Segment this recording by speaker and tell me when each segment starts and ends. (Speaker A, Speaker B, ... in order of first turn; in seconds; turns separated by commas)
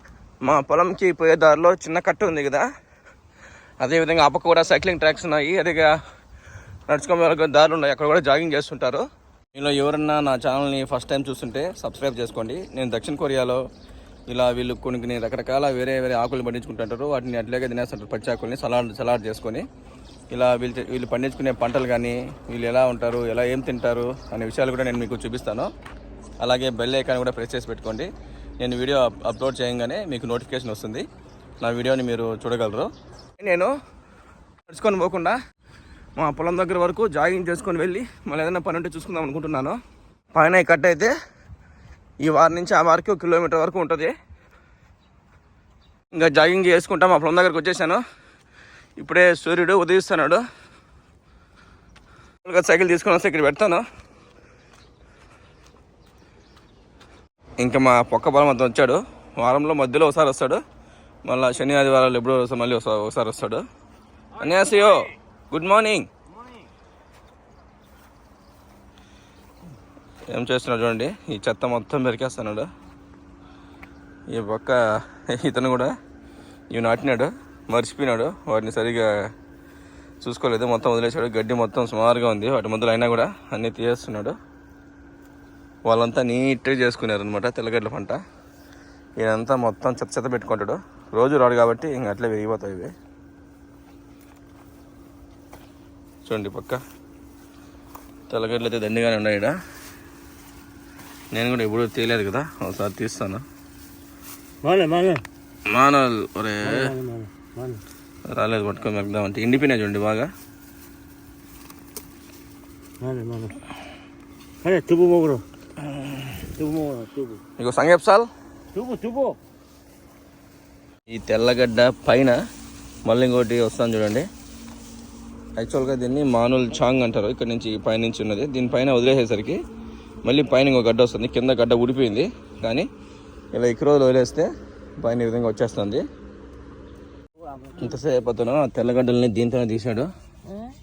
Speaker A: 0.4-2.6, Speaker A: 3.8-6.0, Speaker A: 6.9-13.6, Speaker A: 14.3-19.6, Speaker A: 20.3-25.7, Speaker A: 26.4-28.1, Speaker A: 28.6-31.0, Speaker A: 31.6-33.7, Speaker A: 34.7-35.4, Speaker A: 36.2-39.8, Speaker A: 40.3-41.1, Speaker A: 42.2-44.1, Speaker A: 46.1-48.0, Speaker A: 49.0-50.4, Speaker A: 52.4-53.8, Speaker A: 57.6-60.6, Speaker A: 61.2-63.6, Speaker A: 64.3-66.1, Speaker A: 70.3-72.7, Speaker A: 74.3-75.9, Speaker A: 76.7-79.1, Speaker A: 80.2-84.3, Speaker A: 85.8-88.2, Speaker A: 89.2-92.9, Speaker A: 96.2-96.8, Speaker A: 98.3-99.5, Speaker A: 101.3-103.4, Speaker B: 104.6-105.2, Speaker A: 105.7-106.9, Speaker B: 106.6-107.8, Speaker A: 108.3-110.3, Speaker B: 113.0-113.6, Speaker B: 114.6-115.4, Speaker A: 116.0-116.3, Speaker B: 116.4-117.4, Speaker A: 117.6-118.3, Speaker B: 118.7-119.4, Speaker A: 121.1-122.4, Speaker A: 123.0-124.2, Speaker A: 125.6-129.6, Speaker A: 130.2-132.9, Speaker A: 133.5-134.5, Speaker A: 135.0-136.0, Speaker A: 137.7-140.1